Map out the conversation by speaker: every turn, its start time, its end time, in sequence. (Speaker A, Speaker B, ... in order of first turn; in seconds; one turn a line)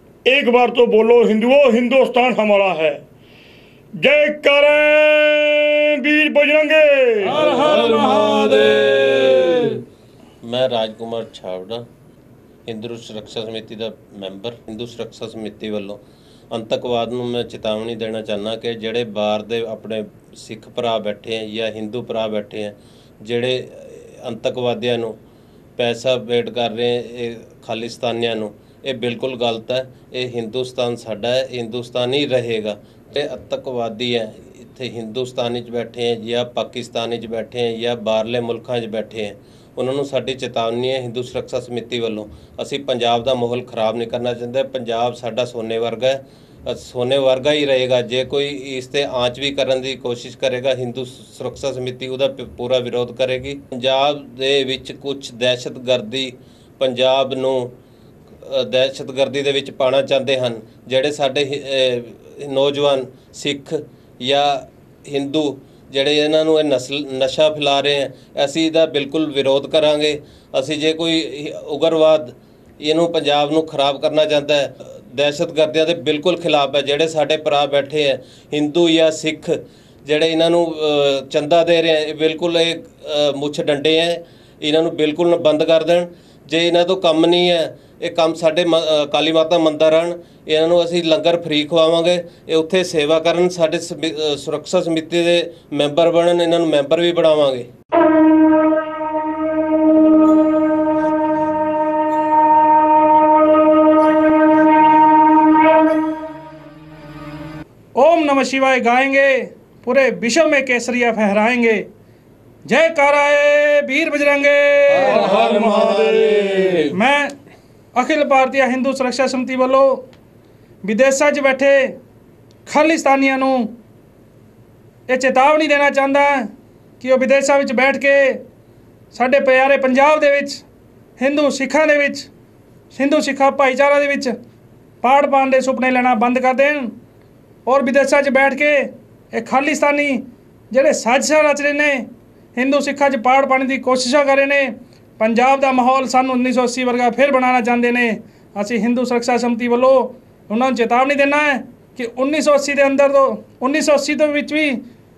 Speaker A: 0.3-3.0
Speaker A: 4.0-7.4
Speaker B: 7.3-9.8
Speaker C: 7.3-9.8
Speaker C: 10.4-11.8
Speaker C: 12.7-16.0
Speaker C: 16.5-25.1
Speaker C: 25.8-57.7
Speaker C: 58.5-97.7
Speaker B: 108.0-111.9
Speaker B: 112.7-115.3
Speaker A: 115.0-116.9
Speaker C: 115.2-116.4
Speaker B: 116.9-117.3
Speaker B: 118.0-120.0
Speaker B: 120.8-122.0
Speaker B: 122.7-123.7
Speaker B: 125.1-126.5
Speaker B: 127.0-128.4
Speaker B: 129.1-130.6
Speaker B: 131.2-132.3
Speaker B: 132.9-134.3
Speaker B: 135.0-136.9
Speaker B: 137.7-154.8